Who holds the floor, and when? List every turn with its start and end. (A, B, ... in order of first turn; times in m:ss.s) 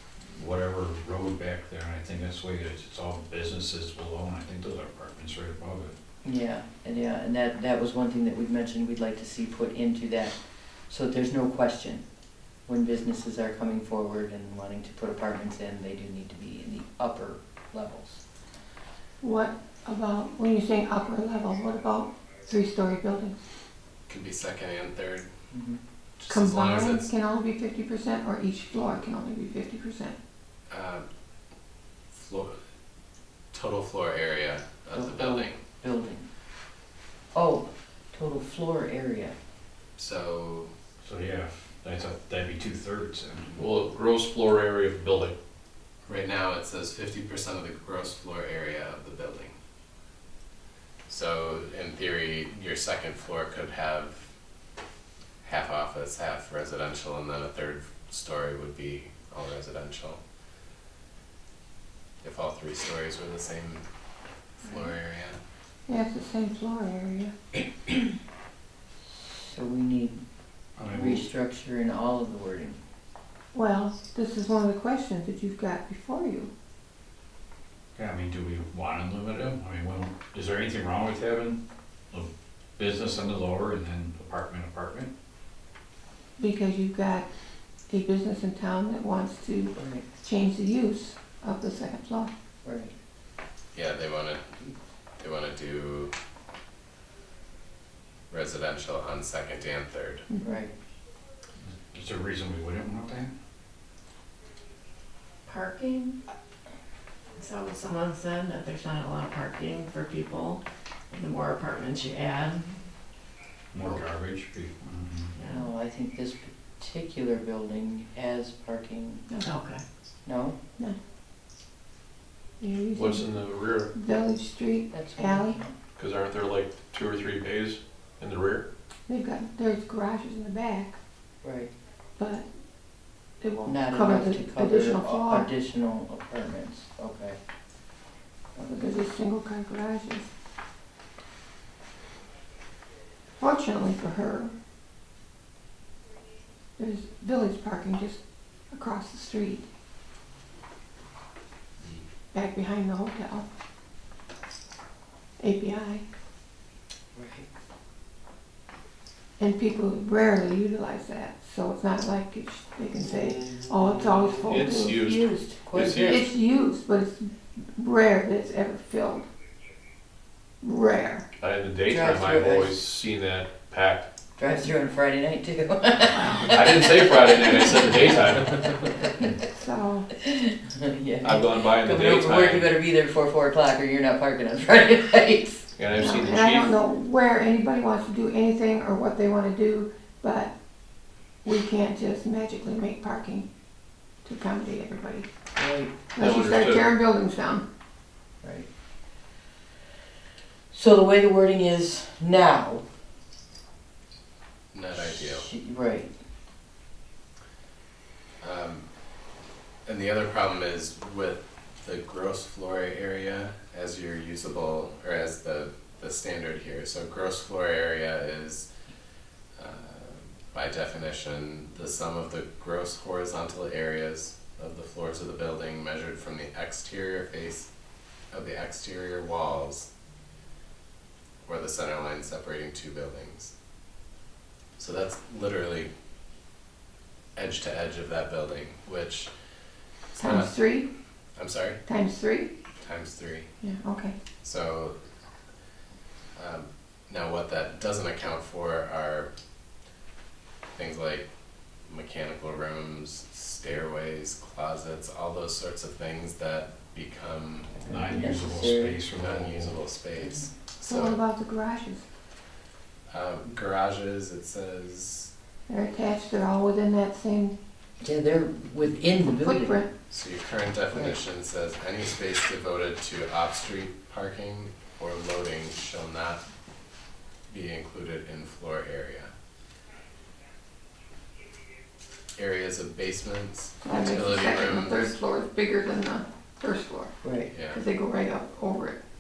0:00.3-0:05.9 A
0:06.2-0:10.4 B
0:10.9-0:12.0 B
0:12.7-0:18.2 B
0:19.2-0:23.4 C
0:24.1-0:25.3 D
0:25.5-0:25.8 B
0:26.2-0:27.1 D
0:26.3-0:30.2 C
0:30.7-0:31.1 D
0:32.1-0:32.6 D
0:33.5-0:35.6 D
0:34.9-0:36.3 B
0:37.3-0:39.4 B
0:40.0-0:40.7 D
0:41.0-0:43.7 A
0:43.5-0:45.4 E
0:46.1-0:49.6 D
0:51.1-0:54.3 D
0:55.4-1:00.2 D
1:02.2-1:03.9 D
1:04.6-1:05.4 D
1:05.9-1:07.3 C
1:09.2-1:10.2 B
1:10.8-1:11.3 A
1:10.9-1:12.8 B
1:13.5-1:16.5 C
1:18.0-1:21.6 A
1:22.1-1:25.1 A
1:26.4-1:27.3 C
1:27.9-1:32.3 C
1:29.8-1:30.1 B
1:32.6-1:32.9 B
1:33.7-1:34.5 D
1:35.2-1:36.1 D
1:38.3-1:40.3 D
1:40.3-1:40.6 C
1:40.4-1:40.7 B
1:41.9-1:43.3 A
1:45.5-1:46.2 F
1:47.4-1:52.8 F
1:53.7-1:55.3 A
1:55.4-1:55.7 F
1:55.4-1:59.3 B
1:59.3-1:59.6 C
1:59.4-1:59.8 F
2:00.2-2:00.6 B
2:02.6-2:03.4 C
2:02.9-2:03.9 E
2:03.9-2:05.6 C
2:04.9-2:05.8 B
2:06.0-2:08.7 E
2:09.1-2:11.0 C
2:11.4-2:11.7 B
2:12.2-2:12.5 C
2:13.4-2:15.5 C
2:13.6-2:17.4 B
2:18.6-2:20.3 C
2:23.4-2:24.5 C
2:26.8-2:29.7 C
2:32.3-2:33.5 C
2:35.4-2:36.0 C
2:37.2-2:37.5 B
2:39.4-2:45.3 C
2:44.4-2:46.2 E
2:45.5-2:46.3 B
2:46.0-2:49.3 C
2:50.6-2:51.3 C
2:51.4-2:54.1 E
2:51.9-2:52.8 B
2:54.4-2:58.1 B
2:56.4-2:59.0 E
2:59.5-3:00.1 C
3:00.2-3:05.6 B
3:01.2-3:02.7 E
3:05.8-3:06.8 E
3:06.0-3:10.5 C
3:11.4-3:13.5 C
3:14.2-3:15.3 C
3:15.6-3:15.9 B
3:16.1-3:17.6 C
3:16.2-3:16.9 E
3:20.7-3:22.8 B
3:24.7-3:25.5 D
3:24.9-3:26.1 B
3:28.4-3:28.8 D
3:29.9-3:38.7 D
3:39.6-3:47.7 D
3:48.3-3:49.9 D
3:51.4-3:53.5 D
3:54.8-3:55.9 D
3:57.4-3:59.3 D
4:00.2-4:00.9 C
4:00.2-4:00.5 D
4:01.4-4:01.8 D
4:01.9-4:02.5 C
4:02.8-4:03.5 D
4:03.6-4:04.2 C
4:04.4-4:05.0 D
4:06.4-4:09.3 D
4:10.7-4:11.3 D
4:11.9-4:17.8 D
4:17.8-4:19.0 B
4:17.8-4:19.8 A
4:19.1-4:21.2 D
4:20.2-4:20.5 B
4:20.8-4:22.1 C
4:23.1-4:25.3 D
4:25.7-4:27.6 C
4:28.0-4:29.8 B
4:29.4-4:29.9 C
4:30.1-4:36.4 D
4:37.5-4:39.3 D
4:42.4-4:45.2 D
4:43.8-4:47.1 C
4:47.2-4:47.5 B
4:47.5-4:47.8 D
4:47.7-4:49.0 C